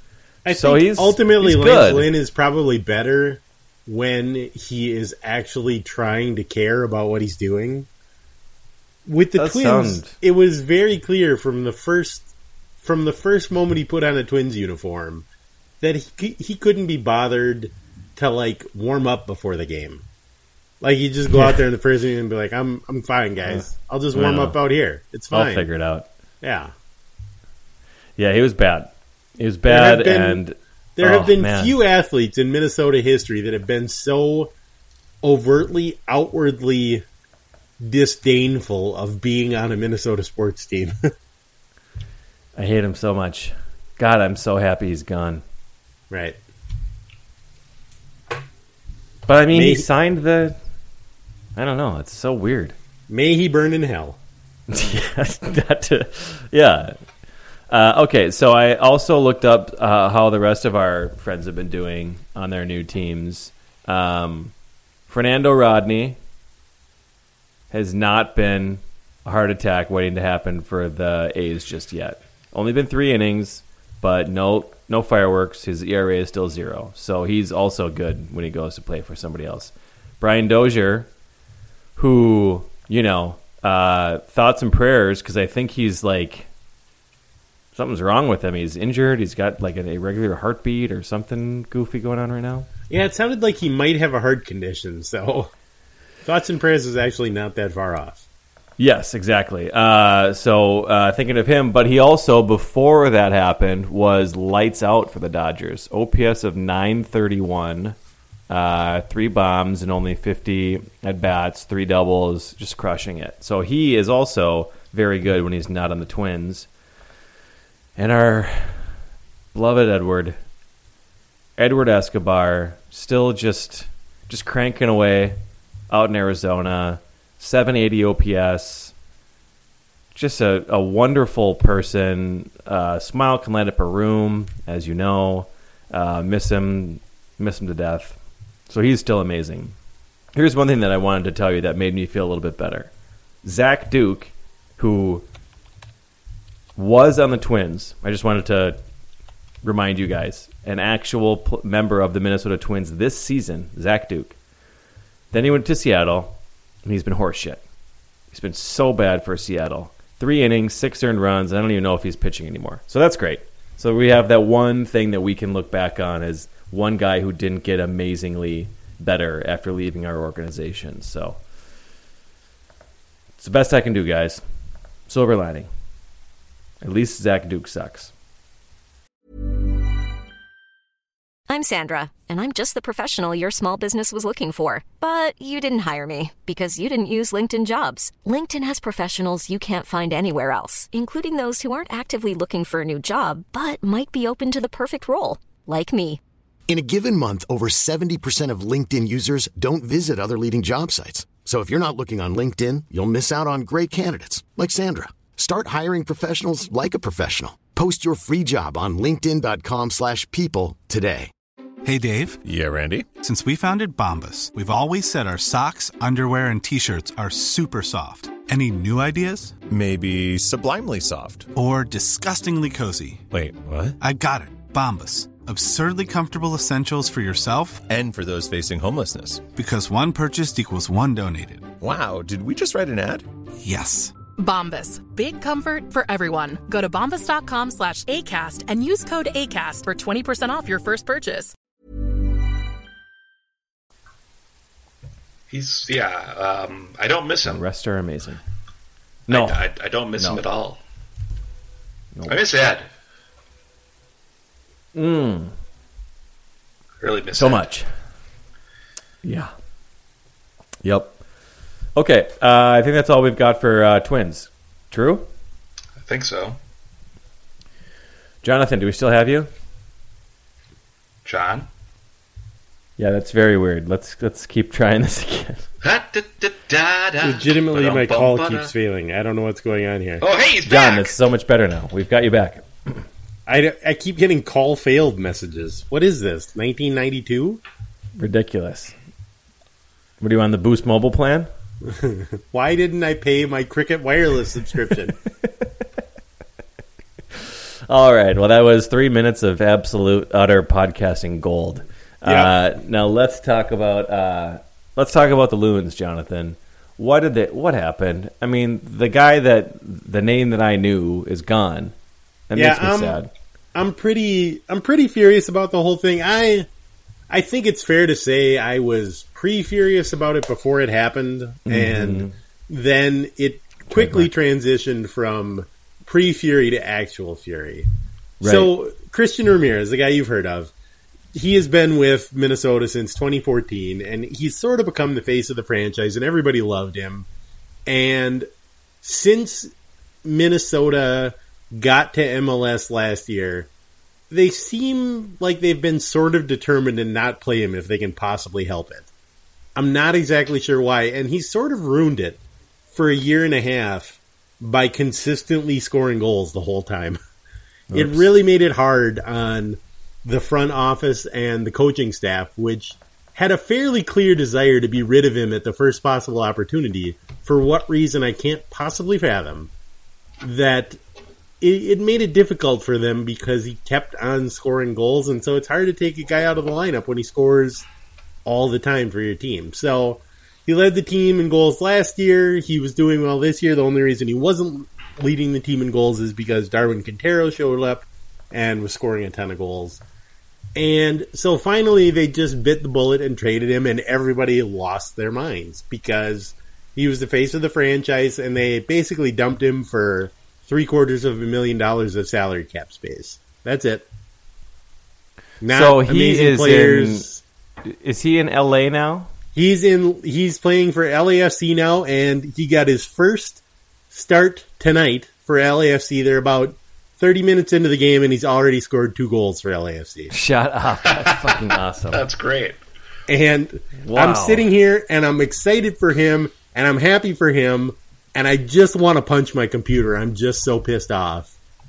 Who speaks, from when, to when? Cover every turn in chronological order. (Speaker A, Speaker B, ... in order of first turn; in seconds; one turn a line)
Speaker A: 0.4-7.9
Speaker B: 0.5-2.1
Speaker A: 9.0-12.3
Speaker B: 9.4-10.2
Speaker A: 12.8-15.2
Speaker A: 15.8-20.0
Speaker A: 20.8-25.7
Speaker B: 23.5-24.6
Speaker B: 25.3-26.1
Speaker A: 26.4-26.7
Speaker B: 28.2-31.8
Speaker A: 29.6-30.4
Speaker A: 31.0-34.5
Speaker A: 35.2-37.0
Speaker A: 37.8-41.0
Speaker B: 42.5-45.4
Speaker A: 46.1-46.4
Speaker B: 49.3-50.5
Speaker A: 49.5-49.9
Speaker B: 51.5-52.7
Speaker A: 53.1-54.2
Speaker B: 54.7-57.0
Speaker B: 57.7-64.5
Speaker B: 65.1-66.2
Speaker B: 67.7-81.1
Speaker B: 82.0-86.5
Speaker B: 87.7-92.7
Speaker A: 92.9-95.5
Speaker A: 96.2-98.2
Speaker B: 98.8-108.0
Speaker B: 108.5-116.7
Speaker B: 118.0-118.9
Speaker B: 119.5-120.4
Speaker B: 121.6-125.4
Speaker B: 125.9-128.9
Speaker B: 130.1-138.2
Speaker B: 138.7-139.7
Speaker B: 140.3-142.9
Speaker B: 143.4-145.2
Speaker B: 146.8-148.8
Speaker B: 149.6-154.4
Speaker B: 155.3-157.6
Speaker B: 158.3-171.4
Speaker B: 173.4-174.4
Speaker B: 175.1-175.7
Speaker B: 176.8-178.1
Speaker C: 181.5-196.2
Speaker D: 196.7-211.3
Speaker E: 211.8-212.4
Speaker F: 212.4-213.1
Speaker E: 213.2-219.6
Speaker F: 219.7-221.5
Speaker E: 221.5-223.3
Speaker F: 223.3-224.0
Speaker E: 224.0-227.8
Speaker F: 227.9-229.4
Speaker E: 229.6-231.7
Speaker F: 231.8-233.2
Speaker E: 233.6-234.1
Speaker G: 234.4-241.5
Speaker H: 245.5-247.6
Speaker B: 247.4-248.4
Speaker B: 249.3-249.6
Speaker H: 249.3-250.8
Speaker B: 250.2-250.4
Speaker H: 252.3-252.9
Speaker B: 254.9-255.5
Speaker H: 257.0-257.6
Speaker B: 257.3-257.9
Speaker B: 259.2-259.5
Speaker B: 260.8-261.1
Speaker B: 261.9-265.3
Speaker H: 266.1-266.6
Speaker B: 268.4-269.5
Speaker H: 271.2-271.7
Speaker B: 273.0-275.6
Speaker H: 275.8-278.7
Speaker A: 277.2-280.2
Speaker H: 280.2-281.1
Speaker B: 280.6-283.0
Speaker A: 283.5-287.6
Speaker B: 288.2-288.9
Speaker B: 290.2-291.5
Speaker A: 291.8-295.1
Speaker B: 297.3-311.9
Speaker A: 302.2-302.6
Speaker B: 312.5-313.3
Speaker A: 312.6-313.2
Speaker A: 313.7-316.7
Speaker A: 317.3-327.9
Speaker B: 321.6-322.3
Speaker B: 323.9-324.3
Speaker B: 328.4-328.7
Speaker A: 328.4-330.7
Speaker A: 331.3-337.3
Speaker A: 337.9-338.5
Speaker A: 339.0-339.7
Speaker A: 340.2-343.7
Speaker A: 344.3-349.1
Speaker A: 349.8-352.4
Speaker A: 352.9-357.2
Speaker B: 357.9-358.3
Speaker A: 357.9-369.7
Speaker A: 370.4-371.0
Speaker A: 371.6-377.9
Speaker A: 378.4-390.0
Speaker A: 390.8-404.1
Speaker A: 405.6-407.4
Speaker B: 405.6-407.3
Speaker B: 407.8-409.3
Speaker A: 409.5-420.3
Speaker B: 420.3-422.2
Speaker H: 421.1-421.6
Speaker H: 422.1-422.8
Speaker A: 423.3-431.5
Speaker B: 424.0-424.7